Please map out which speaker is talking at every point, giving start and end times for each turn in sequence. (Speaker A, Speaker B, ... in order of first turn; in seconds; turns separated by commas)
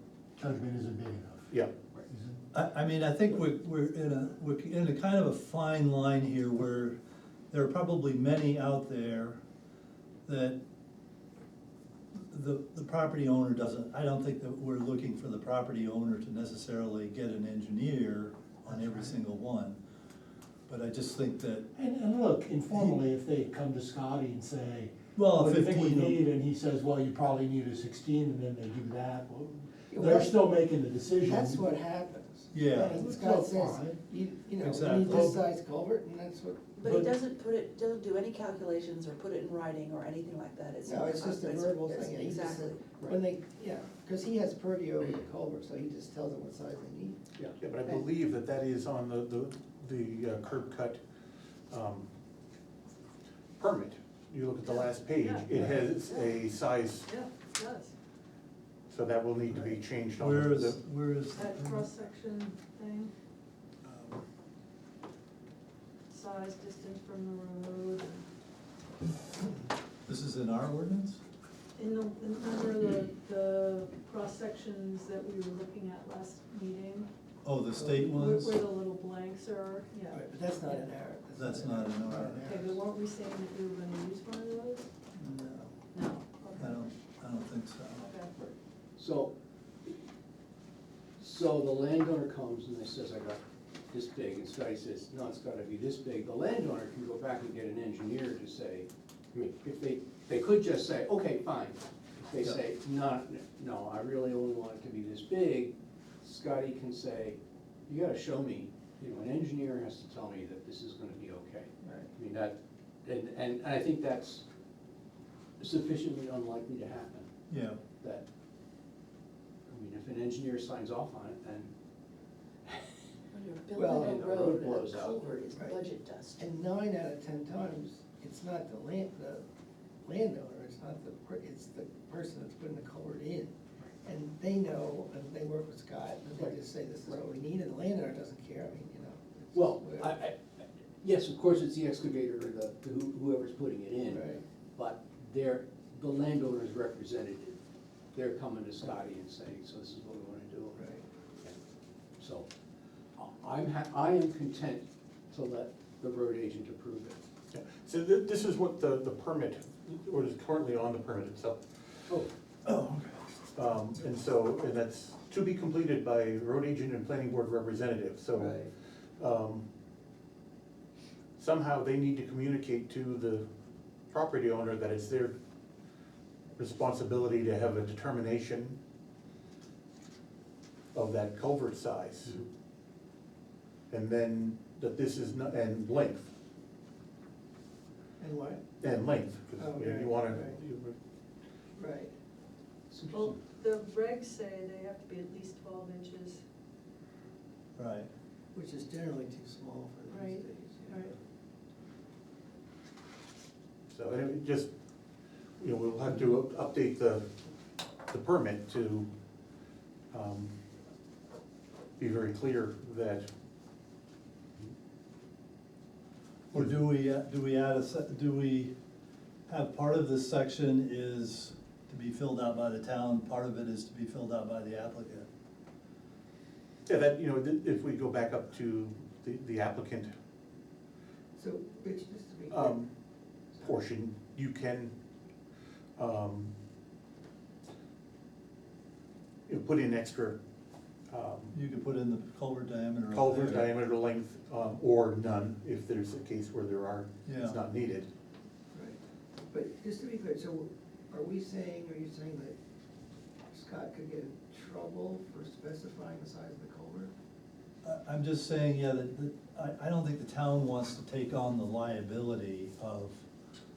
Speaker A: 0.4-1.5, Speaker A: 2.1-2.4, Speaker B: 2.5-7.0, Speaker B: 7.5-9.4, Speaker B: 10.2-10.6, Speaker B: 12.1-19.8, Speaker A: 18.7-19.1, Speaker B: 20.7-21.7, Speaker A: 21.7-31.7, Speaker B: 25.1-26.2, Speaker C: 29.9-30.4, Speaker C: 31.2-36.8, Speaker B: 32.5-33.0, Speaker A: 32.8-34.0, Speaker B: 34.6-35.4, Speaker A: 35.1-35.3, Speaker D: 36.8-42.8, Speaker A: 36.8-37.1, Speaker C: 40.8-47.2, Speaker E: 47.6-51.0, Speaker E: 51.7-52.1, Speaker E: 53.6-57.1, Speaker F: 54.6-56.4, Speaker F: 57.0-57.9, Speaker E: 58.9-60.8, Speaker B: 60.2-61.9, Speaker F: 61.3-63.1, Speaker E: 63.8-64.2, Speaker F: 66.1-68.2, Speaker B: 70.0-71.2, Speaker F: 71.8-77.1, Speaker B: 77.4-78.6, Speaker C: 77.8-78.3, Speaker F: 78.2-80.9, Speaker C: 80.1-82.8, Speaker B: 81.4-82.5, Speaker F: 82.4-84.9, Speaker C: 85.2-85.7, Speaker F: 85.9-86.9, Speaker B: 86.5-88.1, Speaker F: 88.0-88.3, Speaker G: 88.3-89.3, Speaker G: 91.2-114.4, Speaker C: 111.8-112.1, Speaker G: 115.6-117.3, Speaker B: 117.5-117.8, Speaker G: 118.0-118.2, Speaker G: 119.7-121.7, Speaker D: 123.3-126.5, Speaker C: 123.7-124.2, Speaker G: 123.9-125.4, Speaker C: 125.5-125.8, Speaker C: 126.4-129.4, Speaker C: 130.0-140.2, Speaker G: 139.5-147.6, Speaker C: 144.1-144.4, Speaker G: 148.1-150.8, Speaker C: 150.7-151.0, Speaker G: 152.2-152.5, Speaker G: 153.2-157.2, Speaker E: 157.5-161.6, Speaker B: 162.6-163.2, Speaker E: 163.5-168.6, Speaker C: 168.3-168.7, Speaker E: 169.2-169.7, Speaker E: 171.4-173.4, Speaker E: 174.1-175.3, Speaker E: 176.6-178.8, Speaker E: 180.9-182.4, Speaker E: 183.9-186.3, Speaker C: 188.2-188.6, Speaker E: 188.8-191.0, Speaker C: 189.6-190.6, Speaker C: 191.8-192.1, Speaker G: 192.9-193.4, Speaker F: 193.1-196.4, Speaker B: 197.8-198.1, Speaker C: 198.5-201.1, Speaker F: 200.1-201.2, Speaker E: 203.9-204.7, Speaker E: 205.6-207.3, Speaker E: 208.1-209.1, Speaker E: 210.1-210.5, Speaker E: 212.0-213.3, Speaker B: 216.5-218.7, Speaker B: 219.5-225.3, Speaker E: 226.9-230.1, Speaker C: 231.3-232.8, Speaker E: 232.5-232.9, Speaker E: 233.6-234.9, Speaker E: 235.9-236.5, Speaker E: 239.5-240.4, Speaker E: 241.1-241.5, Speaker B: 241.5-243.7, Speaker E: 243.1-248.1, Speaker B: 247.2-247.6, Speaker C: 248.7-252.6, Speaker C: 253.5-257.1, Speaker B: 257.8-263.2